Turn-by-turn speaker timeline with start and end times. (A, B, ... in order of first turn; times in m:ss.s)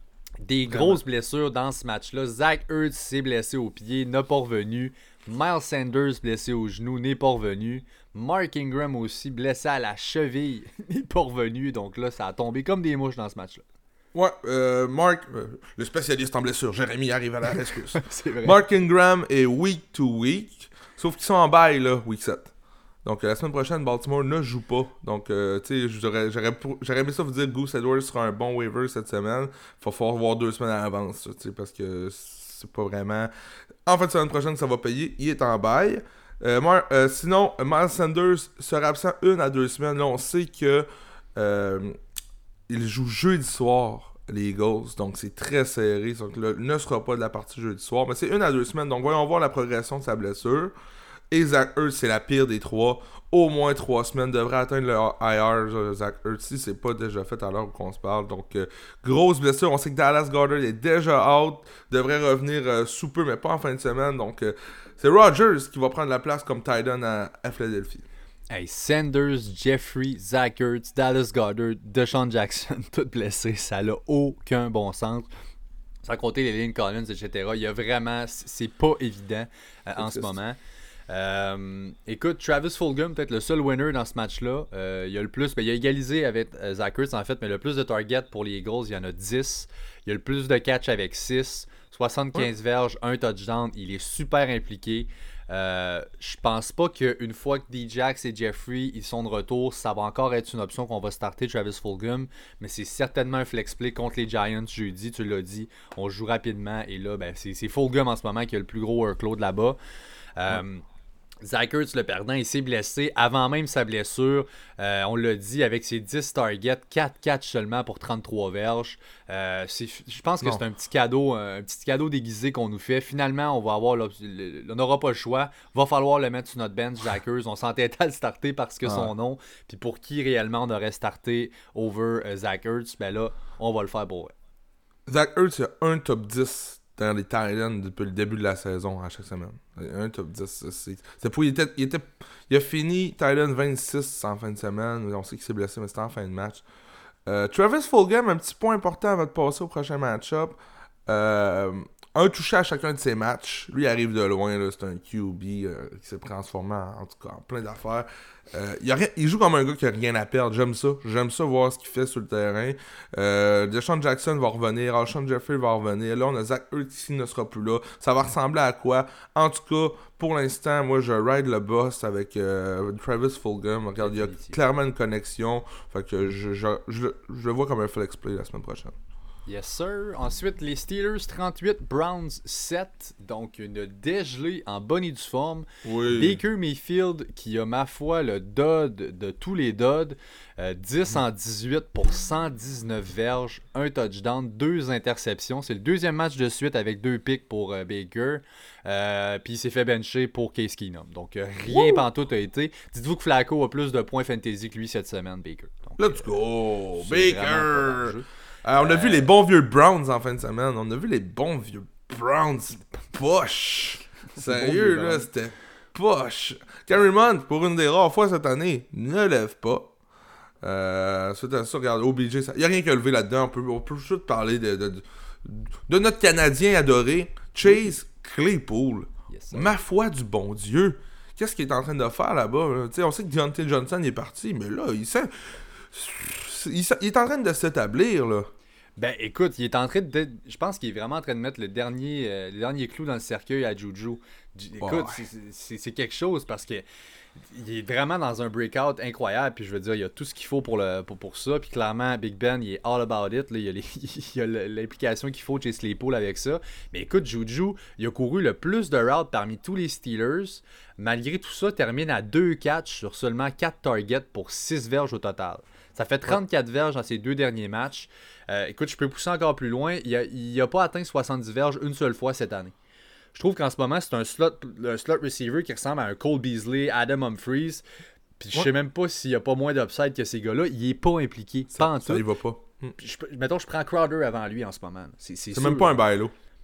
0:00.4-0:13.6 A
0:00.7-0:01.0 B
0:14.1-0:22.5 B
0:17.5-0:18.6 A
0:23.0-0:33.3 B
0:33.9-0:42.0 B
0:42.7-0:50.7 B
0:51.3-1:08.1 B
1:08.5-1:15.3 A
1:16.0-1:20.6 A
1:20.0-1:20.3 B
1:21.1-1:49.8 A
1:50.4-1:50.8 A
1:51.4-2:14.3 A
2:08.8-2:09.1 B
2:15.1-2:26.6 B
2:27.3-2:58.9 B
2:54.0-2:54.6 A
2:59.5-3:26.3 A
3:05.8-3:06.4 B
3:21.7-3:22.0 B
3:26.0-3:39.9 B
3:27.0-3:28.3 A
3:28.8-3:29.3 A
3:34.4-3:35.3 A
3:40.6-3:58.5 B
3:49.3-3:49.8 A
3:59.0-4:06.9 A
4:04.8-4:05.2 B
4:07.5-4:32.7 A
4:33.4-4:37.8 A
4:38.4-4:42.3 A
4:41.7-4:43.0 B
4:43.0-4:46.0 A
4:45.5-4:46.3 B